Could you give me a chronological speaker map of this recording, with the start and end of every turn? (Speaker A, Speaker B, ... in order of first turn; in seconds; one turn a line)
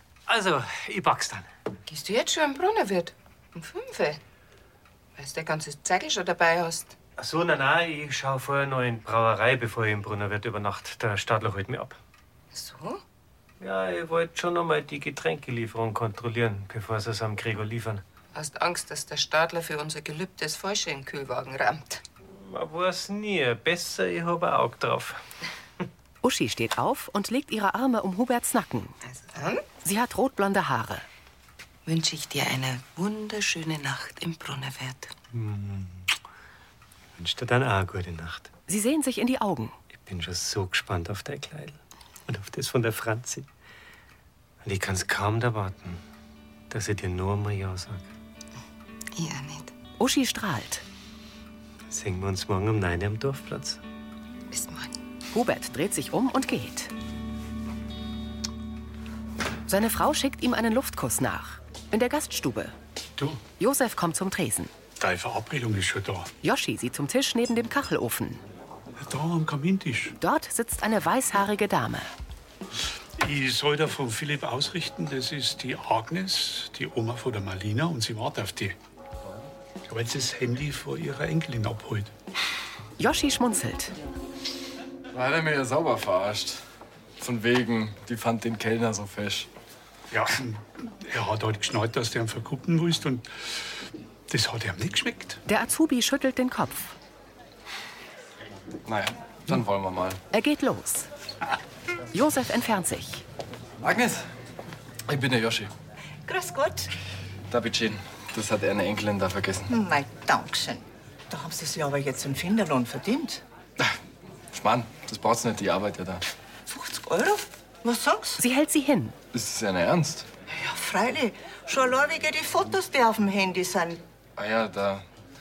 Speaker A: 0.3-1.5
Speaker B: 1.9-4.2
Speaker B: 5.2-7.0
Speaker A: 7.2-12.0
Speaker B: 12.5-13.0
Speaker A: 13.6-18.0
Speaker B: 18.3-22.0
Speaker A: 22.3-25.2
Speaker C: 26.2-28.9
Speaker B: 29.1-29.6
Speaker C: 29.8-31.1
Speaker B: 31.9-35.1
Speaker A: 35.3-36.1
Speaker A: 37.2-38.5
Speaker C: 38.7-39.8
Speaker A: 40.0-43.5
Speaker A: 44.6-46.0
Speaker A: 46.7-48.0
Speaker B: 49.2-49.7
Speaker C: 50.0-50.8
Speaker A: 51.9-53.8
Speaker B: 54.5-54.9
Speaker C: 55.3-56.9
Speaker C: 59.7-62.8
Speaker C: 63.6-64.7
Speaker D: 65.0-66.3
Speaker C: 66.4-68.4
Speaker D: 69.0-70.2
Speaker C: 70.2-72.1
Speaker D: 73.2-78.8
Speaker D: 79.9-82.1
Speaker C: 83.0-84.0
Speaker E: 85.1-86.6
Speaker E: 87.2-89.5
Speaker D: 90.1-93.3
Speaker D: 94.3-95.4
Speaker C: 95.5-97.0
Speaker E: 98.9-100.2
Speaker C: 100.3-101.1
Speaker C: 102.1-103.2
Speaker E: 103.8-104.2
Speaker E: 105.1-105.7
Speaker F: 106.3-106.9
Speaker E: 107.5-109.7
Speaker F: 109.7-113.4
Speaker E: 114.5-116.2
Speaker F: 116.7-118.4
Speaker C: 118.4-119.2
Speaker E: 119.3-120.3
Speaker F: 120.5-124.0
Speaker E: 124.4-125.0